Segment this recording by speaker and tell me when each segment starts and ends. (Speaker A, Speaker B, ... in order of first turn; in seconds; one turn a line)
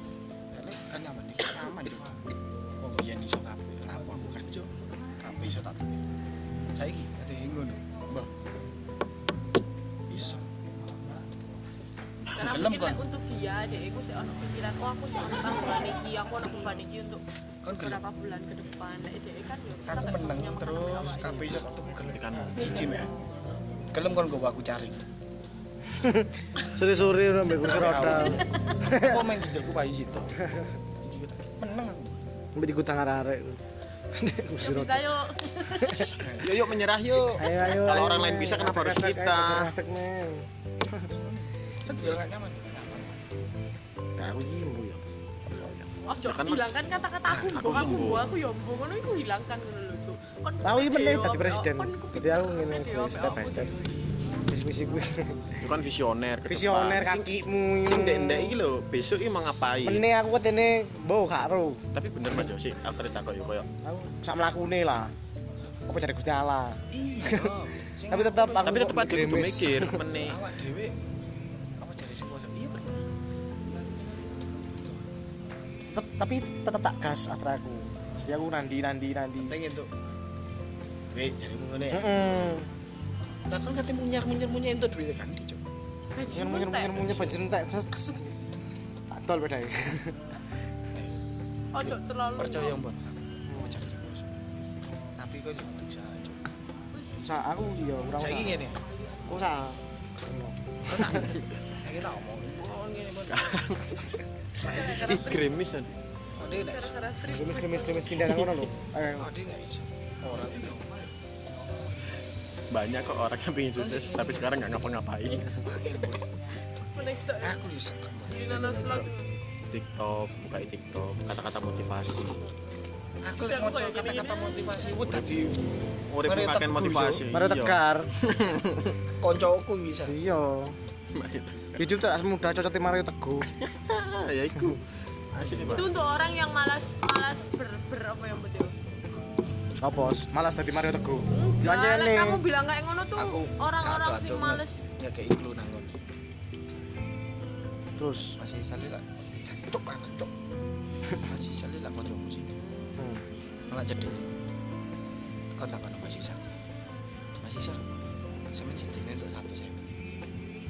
Speaker A: 0.5-2.1
Speaker A: 2.8-6.0
Speaker A: 6.8-8.3
Speaker A: 10.1-10.4
Speaker B: 12.3-12.7
Speaker C: 12.3-21.6
Speaker A: 12.4-13.0
Speaker B: 15.2-15.6
Speaker A: 17.6-18.0
Speaker A: 19.9-23.1
Speaker B: 22.1-23.1
Speaker A: 23.9-25.0
Speaker D: 26.0-29.1
Speaker A: 27.4-30.4
Speaker A: 31.0-32.2
Speaker D: 32.6-33.6
Speaker D: 34.1-35.0
Speaker C: 34.6-36.2
Speaker D: 35.8-36.1
Speaker A: 36.2-36.5
Speaker B: 36.4-39.7
Speaker D: 37.4-41.1
Speaker A: 41.0-43.2
Speaker D: 44.2-45.9
Speaker C: 46.1-54.0
Speaker B: 46.2-46.8
Speaker A: 47.3-47.8
Speaker B: 47.4-48.4
Speaker D: 50.6-53.7
Speaker D: 54.5-55.6
Speaker B: 55.6-60.0
Speaker D: 56.5-58.6
Speaker D: 59.8-61.8
Speaker B: 61.9-63.7
Speaker D: 63.8-65.1
Speaker D: 65.9-67.5
Speaker A: 66.9-69.0
Speaker D: 68.1-70.0
Speaker B: 68.6-70.4
Speaker A: 70.1-71.0
Speaker A: 71.8-73.0
Speaker D: 75.9-79.6
Speaker A: 79.5-79.9
Speaker A: 81.1-82.6
Speaker D: 81.9-82.7
Speaker A: 83.5-85.6
Speaker C: 86.2-87.3
Speaker D: 86.3-88.3
Speaker A: 87.1-87.4
Speaker D: 89.1-90.2
Speaker C: 91.7-92.8
Speaker A: 91.8-94.4
Speaker D: 93.5-93.8
Speaker A: 95.2-96.4
Speaker D: 97.2-98.6
Speaker A: 98.2-98.8
Speaker D: 99.3-101.3
Speaker A: 100.9-103.7
Speaker B: 101.1-101.5
Speaker B: 103.1-105.9
Speaker C: 104.6-105.5
Speaker A: 104.7-105.2
Speaker A: 106.4-107.0
Speaker C: 106.5-108.2
Speaker D: 107.3-109.3
Speaker B: 108.1-108.7
Speaker A: 109.2-110.9
Speaker B: 112.7-115.5
Speaker A: 113.7-114.6
Speaker A: 115.5-116.2
Speaker C: 116.8-117.6
Speaker A: 117.4-119.1
Speaker C: 118.3-119.2
Speaker B: 119.7-122.4
Speaker A: 123.2-125.6
Speaker C: 123.5-125.0
Speaker B: 126.1-128.9
Speaker A: 126.2-127.2
Speaker D: 127.3-128.1
Speaker A: 129.2-130.2
Speaker D: 130.1-130.8
Speaker B: 131.1-131.8
Speaker D: 131.8-133.4
Speaker B: 133.6-136.0
Speaker A: 135.5-135.8
Speaker C: 135.7-138.7
Speaker D: 139.8-142.4
Speaker C: 141.3-144.8
Speaker A: 143.2-146.0
Speaker D: 148.0-148.3
Speaker A: 148.4-150.3
Speaker A: 151.2-152.5
Speaker D: 153.0-153.2
Speaker A: 153.7-154.3
Speaker A: 155.5-156.4
Speaker A: 157.4-157.9
Speaker A: 158.5-159.8